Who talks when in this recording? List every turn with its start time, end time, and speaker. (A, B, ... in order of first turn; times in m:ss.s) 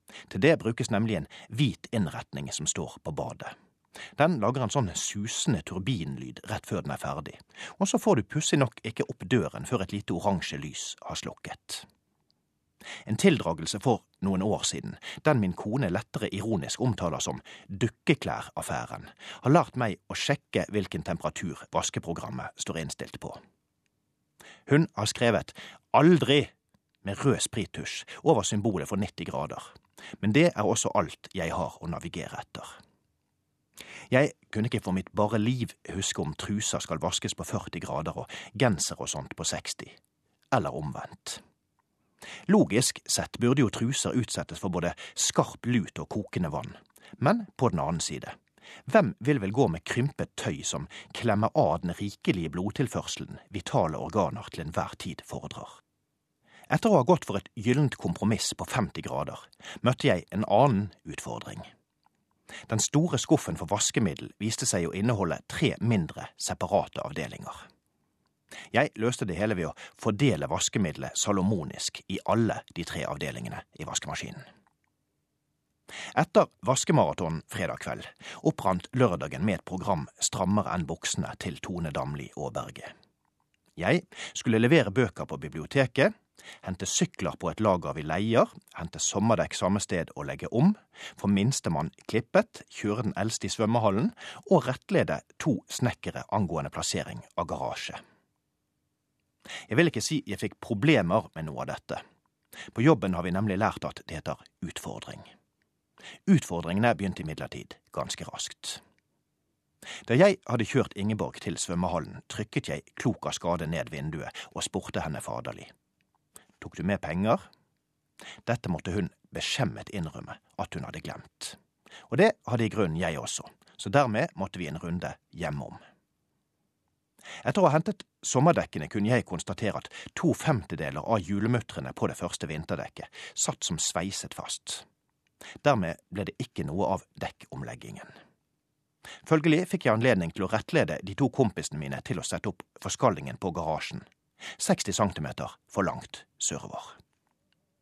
0:00.3-0:03.5 A
0:04.2-0:11.8 A
0:13.0-0:23.4 A
0:24.6-0:26.5 A
0:27.0-0:29.7 A
0:30.2-0:32.7 A
0:34.1-0:39.9 A
0:40.5-0:41.4 A
0:42.5-0:48.3 A
0:48.9-0:55.8 A
0:56.7-1:01.7 A
1:02.7-1:07.6 A
1:08.7-1:14.4 A
1:16.1-1:22.9 A
1:23.8-1:38.0 A
1:39.7-1:42.0 A
1:42.7-1:45.3 A
1:46.2-1:48.8 A
1:50.0-1:55.7 A
1:56.6-1:57.4 A
1:58.4-2:01.6 A
2:02.1-2:05.8 A
2:07.4-2:14.8 A
2:15.6-2:18.1 A
2:19.2-2:24.0 A
2:24.6-2:26.9 A